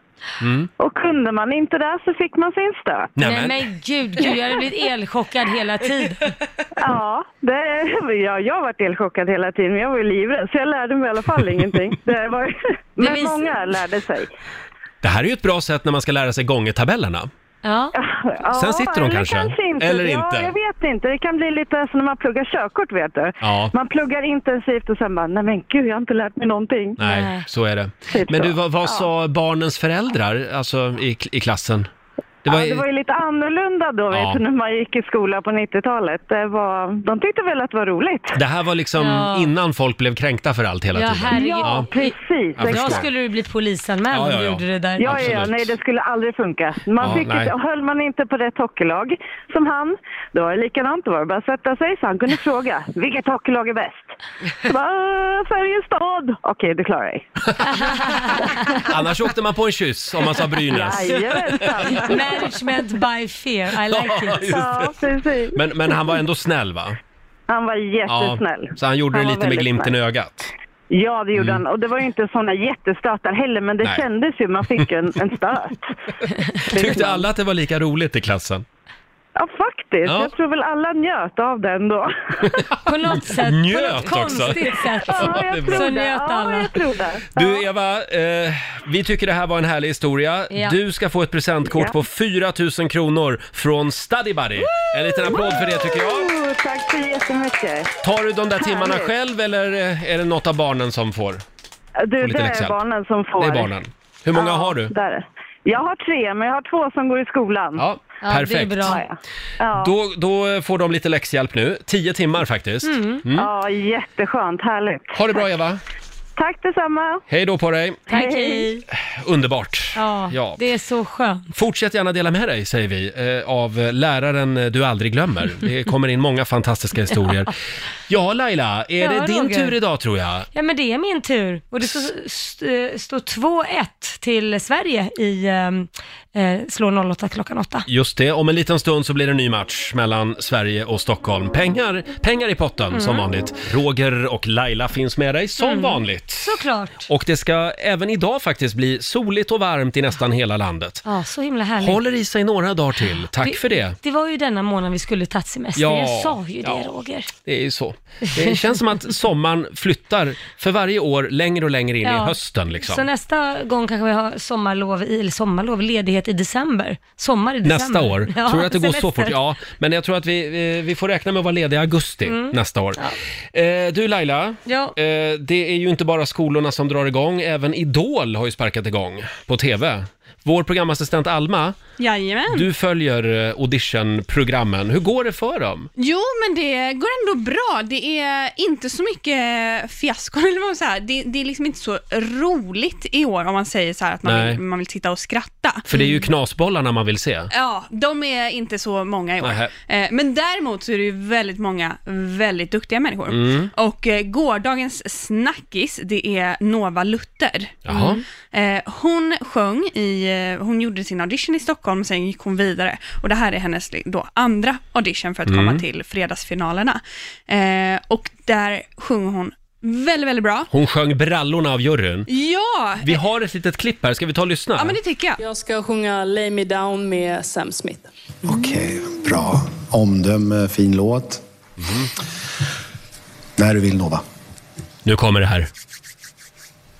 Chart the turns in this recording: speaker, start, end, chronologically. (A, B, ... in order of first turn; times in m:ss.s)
0:00.4-0:00.7 A
0:00.8-0:03.2 B
0:03.2-0:03.6 A
0:03.2-0:06.3 C
0:06.8-0:14.3 B
0:13.0-0:13.6 C
0:15.0-0:17.3 A
0:17.6-0:17.9 C
0:17.9-0:27.0 B
0:18.5-0:20.5 A
0:23.4-0:23.7 A
0:27.0-0:31.9 A
0:27.0-0:27.4 C
0:28.1-0:29.1 B
0:32.4-0:32.8 A
0:32.5-0:38.4 B
0:34.1-0:34.4 A
0:38.3-0:41.9 A
0:39.0-0:39.5 C
0:40.9-0:45.1 C
0:41.3-0:43.0 B
0:42.6-0:43.1 A
0:44.1-0:45.7 A
0:45.0-0:57.2 B
0:47.0-0:47.5 A
0:58.5-1:02.1 A
1:00.7-1:02.5 B
1:01.9-1:04.4 C
1:03.9-1:05.0 A
1:04.4-1:05.6 B
1:05.5-1:07.0 A
1:07.5-1:09.9 B
1:08.1-1:10.5 A
1:10.9-1:15.9 B
1:11.3-1:11.6 A
1:16.6-1:17.2 B
1:16.6-1:18.6 A
1:19.4-1:22.6 B
1:20.0-1:20.3 A
1:22.8-1:26.8 C
1:23.1-1:25.9 A
1:25.0-1:27.6 B
1:27.3-1:36.3 A
1:30.5-1:30.8 C
1:31.7-1:32.0 B
1:35.2-1:37.9 B
1:38.0-1:41.4 A
1:38.6-1:39.1 B
1:42.0-1:43.7 B
1:42.2-1:42.8 A
1:43.4-1:44.9 A
1:44.3-1:47.8 B
1:47.8-1:49.0 A
1:48.2-1:49.0 C
1:48.9-1:49.9 B
1:49.7-1:53.5 A
1:52.8-1:53.2 C
1:53.3-1:55.4 B
1:55.1-1:55.8 A
1:56.4-1:57.2 B
1:57.3-1:58.0 A
1:58.1-1:58.8 B
1:58.1-1:58.8 C
1:58.9-2:00.6 A
2:00.0-2:01.5 C
2:01.5-2:07.5 A
2:08.1-2:10.5 A
2:09.0-2:09.8 C
2:10.5-2:17.9 C
2:17.9-2:26.6 A
2:22.9-2:23.2 C
2:25.6-2:27.1 C
2:27.1-2:31.0 A
2:31.0-2:32.0 C
2:31.8-2:34.0 A
2:33.3-2:37.3 C
2:35.8-2:36.8 A
2:37.4-2:43.1 A
2:38.4-2:38.8 C
2:42.0-2:49.4 C
2:47.6-2:53.0 A
2:52.2-2:53.2 C
2:53.5-3:01.8 A
2:54.6-2:54.9 C
3:02.0-3:02.7 D
3:02.5-3:05.9 A
3:06.0-3:15.8 D
3:14.2-3:14.6 A
3:15.9-3:17.5 A
3:15.9-3:16.2 C
3:17.5-3:40.7 D
3:19.4-3:19.7 A
3:23.3-3:23.7 A
3:27.8-3:28.2 A
3:35.4-3:35.8 A
3:40.7-3:42.3 A
3:42.3-3:43.2 D
3:43.0-3:45.0 A
3:44.8-3:45.4 D
3:48.4-3:51.4 E
3:51.8-3:52.1 A
3:53.6-3:54.2 E
3:55.0-3:55.7 A